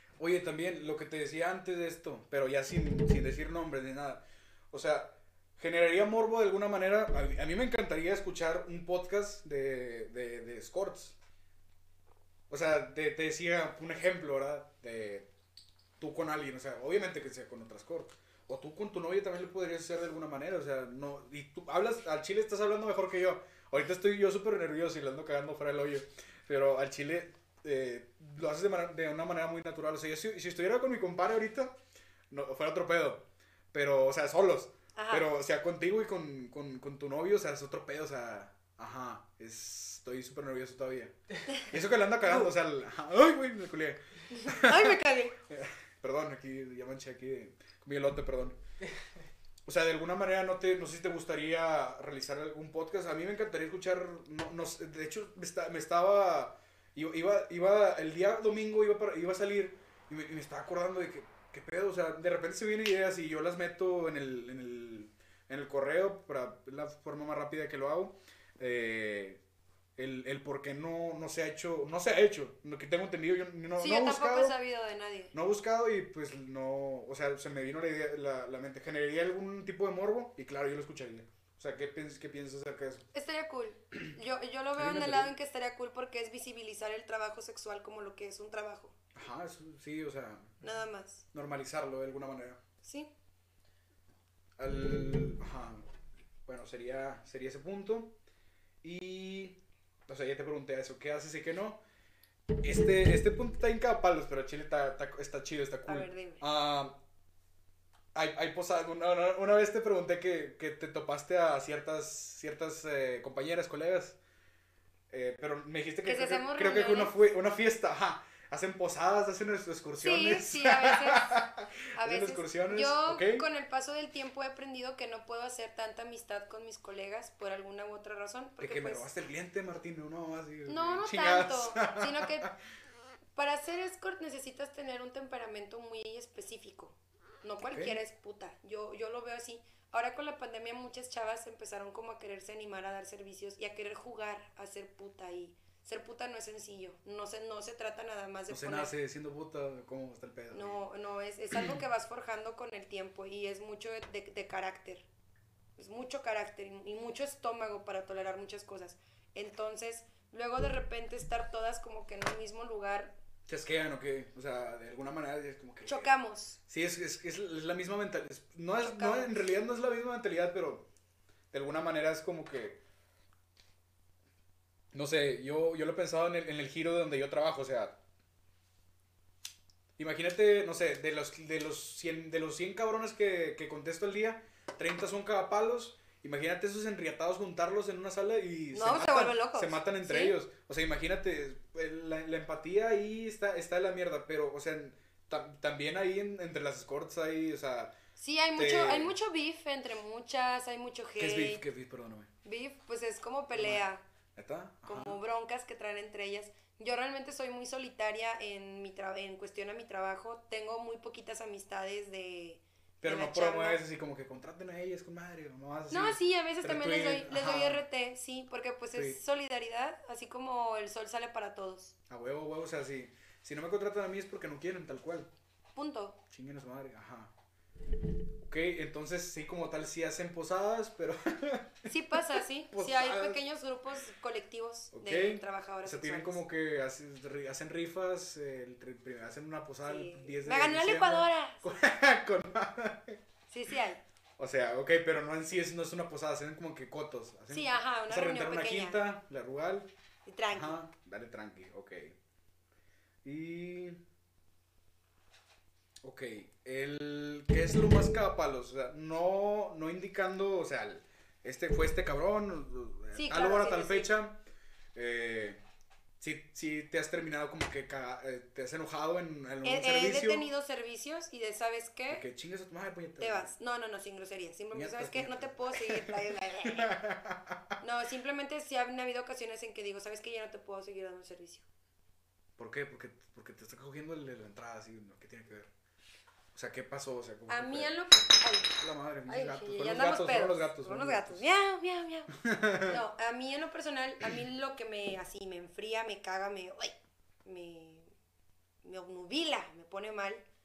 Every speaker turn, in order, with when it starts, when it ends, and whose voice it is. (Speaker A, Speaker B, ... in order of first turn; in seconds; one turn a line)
Speaker A: 0.2-11.2
Speaker A: 12.5-15.3
Speaker A: 16.0-31.8
Speaker A: 32.3-48.6
Speaker B: 34.9-35.3
Speaker B: 44.3-45.4
Speaker A: 49.6-69.4
Speaker A: 70.0-74.6
Speaker B: 73.8-75.3
Speaker A: 75.3-83.0
Speaker B: 83.1-88.9
Speaker A: 84.8-85.3
Speaker A: 89.1-90.6
Speaker B: 90.6-91.2
Speaker A: 91.3-92.6
Speaker B: 92.8-93.1
Speaker A: 94.6-95.8
Speaker A: 96.5-98.1
Speaker A: 98.8-101.8
Speaker A: 102.6-107.0
Speaker B: 105.8-106.4
Speaker A: 108.1-114.2
Speaker A: 115.1-123.5
Speaker B: 116.0-117.1
Speaker B: 120.0-121.4
Speaker B: 122.0-129.1
Speaker A: 128.6-132.5
Speaker B: 130.7-132.5
Speaker B: 133.3-148.9
Speaker A: 137.6-138.0
Speaker A: 148.5-150.8
Speaker B: 150.5-155.1
Speaker B: 155.8-163.2
Speaker A: 163.5-170.8
Speaker B: 165.8-166.6
Speaker B: 168.8-169.3
Speaker A: 171.5-172.8
Speaker A: 174.9-178.0
Speaker A: 180.0-197.9
Speaker B: 188.7-190.3
Speaker B: 198.2-201.6
Speaker A: 198.6-199.1
Speaker A: 201.2-202.3
Speaker B: 202.4-204.0
Speaker A: 203.5-203.8
Speaker A: 204.3-205.2
Speaker B: 204.8-213.8
Speaker A: 213.0-217.8
Speaker B: 215.9-221.9
Speaker A: 218.9-219.2
Speaker A: 222.1-225.3
Speaker B: 225.8-226.2
Speaker A: 226.3-227.3
Speaker A: 228.4-233.4
Speaker B: 231.9-236.4
Speaker A: 234.9-243.2
Speaker B: 239.9-241.7
Speaker B: 243.5-244.0
Speaker A: 244.4-249.9
Speaker B: 247.5-249.0
Speaker B: 250.2-250.8
Speaker A: 250.5-252.2
Speaker A: 253.2-254.0
Speaker A: 256.0-264.4
Speaker B: 263.1-264.1
Speaker A: 264.9-265.6
Speaker A: 266.2-270.5
Speaker B: 269.6-272.2
Speaker A: 272.1-273.5
Speaker B: 273.2-276.9
Speaker A: 274.7-277.6
Speaker B: 277.8-281.6
Speaker A: 282.6-285.7
Speaker A: 286.5-288.0
Speaker B: 287.5-288.8
Speaker A: 288.8-291.4
Speaker B: 289.3-298.1
Speaker A: 292.4-293.0
Speaker B: 298.8-300.4